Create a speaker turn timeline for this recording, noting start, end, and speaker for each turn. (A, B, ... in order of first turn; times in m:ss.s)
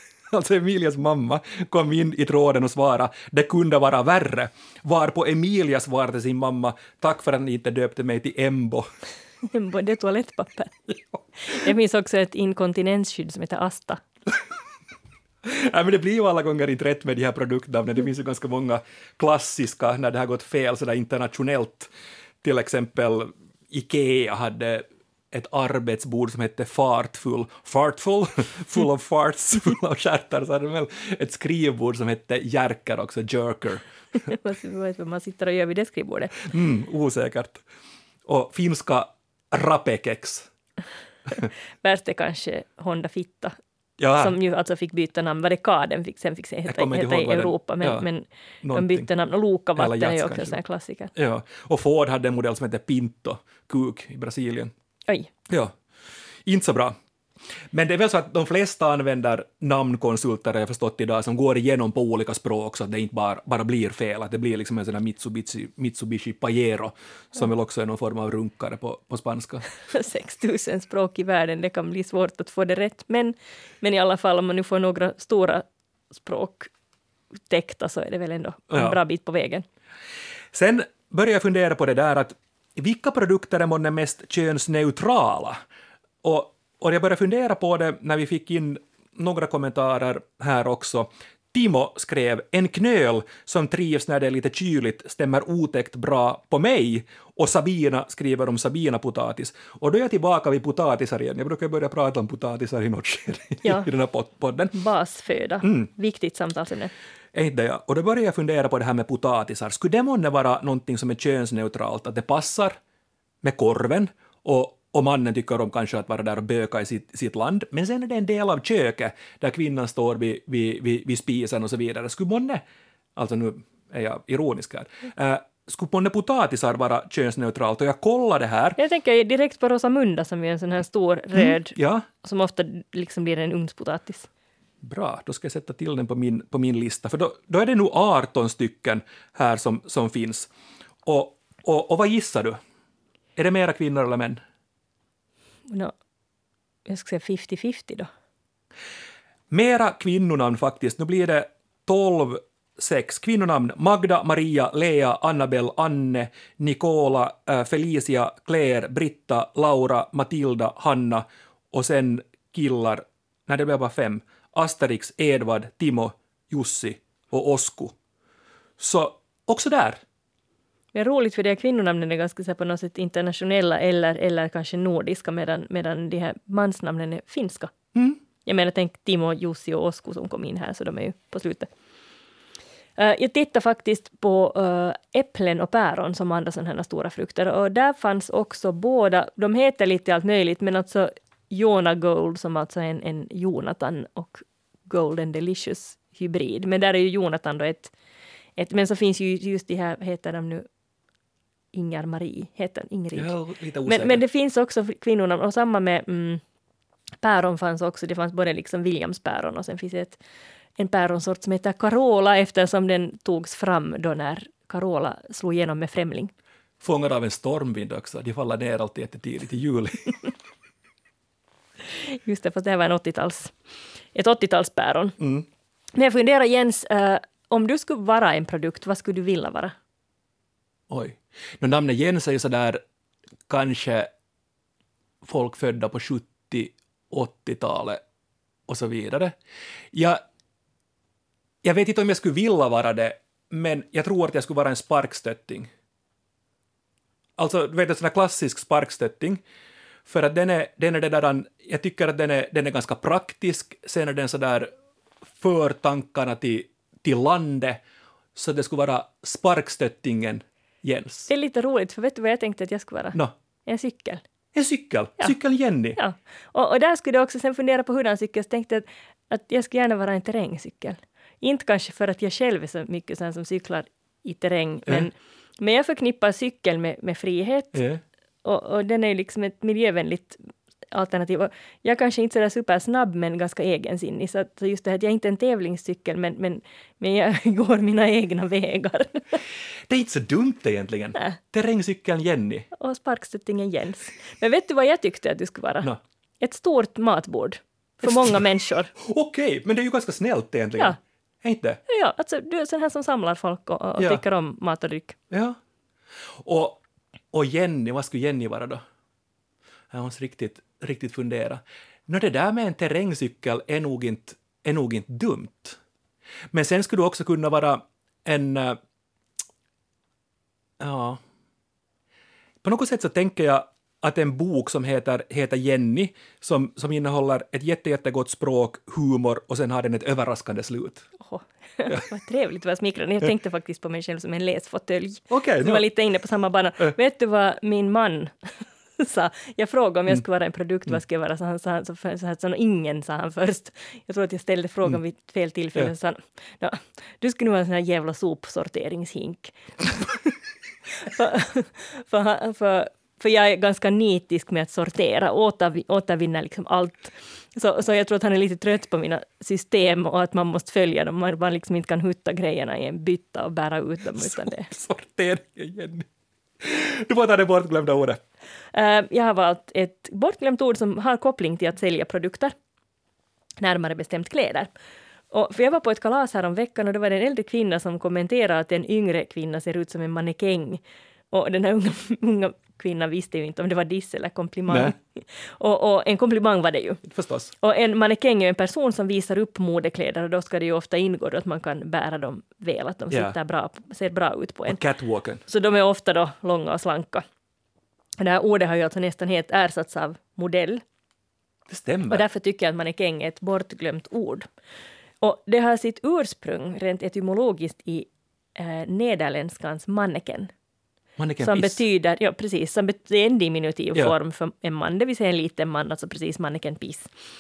0:00.3-0:08.9 A
0:09.5-0:10.9 B
0:11.4-0:14.0 B
0:15.4-0:21.9 A
0:22.4-0:33.8 A
0:34.3-0:36.5 B
0:36.4-0:37.6 A
0:38.3-0:40.5 A
0:41.8-0:43.6 B
0:44.0-0:44.4 A
0:44.2-0:51.1 B
0:46.7-0:48.1 A
0:48.6-0:49.1 A
0:49.8-0:50.6 A
0:51.1-0:54.7 A
0:55.5-0:55.8 A
0:56.5-0:57.0 A
0:57.7-1:09.7 A
1:09.9-1:16.7 B
1:17.5-1:19.6 B
1:18.7-1:19.0 A
1:20.5-1:25.6 A
1:26.2-1:44.8 A
1:44.7-1:46.9 B
1:45.6-1:45.9 A
1:47.3-1:52.8 A
1:53.4-2:02.6 A
2:03.2-2:08.8 A
2:08.8-2:14.3 B
2:11.4-2:12.1 A
2:14.8-2:20.5 A
2:21.0-2:22.6 A
2:23.4-2:24.4 A
2:25.7-2:25.9 B
2:26.9-2:28.1 B
2:29.5-2:48.0 A
2:48.8-2:50.0 A
2:50.9-2:57.7 B
2:58.4-3:01.7 B
3:03.0-3:17.9 B
3:18.6-3:20.7 B
3:21.7-3:26.4 B
3:23.2-3:24.2 A
3:27.2-3:30.2 B
3:30.8-3:36.3 B
3:36.8-3:40.1 A
3:41.9-3:43.5 B
3:44.1-3:45.2 B
3:45.2-3:45.4 A
3:46.0-3:49.8 B
3:50.9-3:52.8 A
3:53.5-3:54.1 A
3:55.2-3:58.0 A
3:58.7-3:59.4 A
3:59.9-4:00.2 A
4:01.6-4:05.7 A
4:07.4-4:09.4 A
4:10.1-4:14.7 A
4:15.4-4:17.8 A
4:18.4-4:21.3 A
4:21.3-4:24.2 B
4:24.6-4:26.0 A
4:26.0-4:37.8 B
4:37.7-4:38.0 A
4:38.4-4:49.4 B
4:49.9-4:52.7 A
4:52.7-4:55.9 B
4:56.4-4:58.9 B
4:58.0-4:58.4 A
4:59.0-5:01.8 A
5:01.9-5:05.2 B
5:04.0-5:04.2 A
5:05.3-5:05.6 A
5:06.4-5:06.8 A
5:07.3-5:08.8 A
5:09.9-5:15.8 A
5:16.5-5:18.8 A
5:20.8-5:21.2 A
5:22.6-5:31.1 A
5:31.2-5:50.3 B
5:35.3-5:35.8 A
5:50.9-6:04.7 B
6:04.2-6:06.1 A
6:06.6-6:08.2 A
6:08.7-6:12.5 B
6:13.6-6:14.7 B
6:15.3-6:27.0 B
6:24.7-6:24.9 A
6:27.0-6:27.5 A
6:27.6-6:34.8 B
6:33.1-6:33.4 A
6:34.7-6:35.4 A
6:35.5-6:37.2 B
6:38.2-6:40.8 B
6:41.7-6:42.2 A
6:42.1-6:44.5 B
6:45.2-6:50.5 B
6:51.2-6:51.8 A
6:51.4-6:57.1 B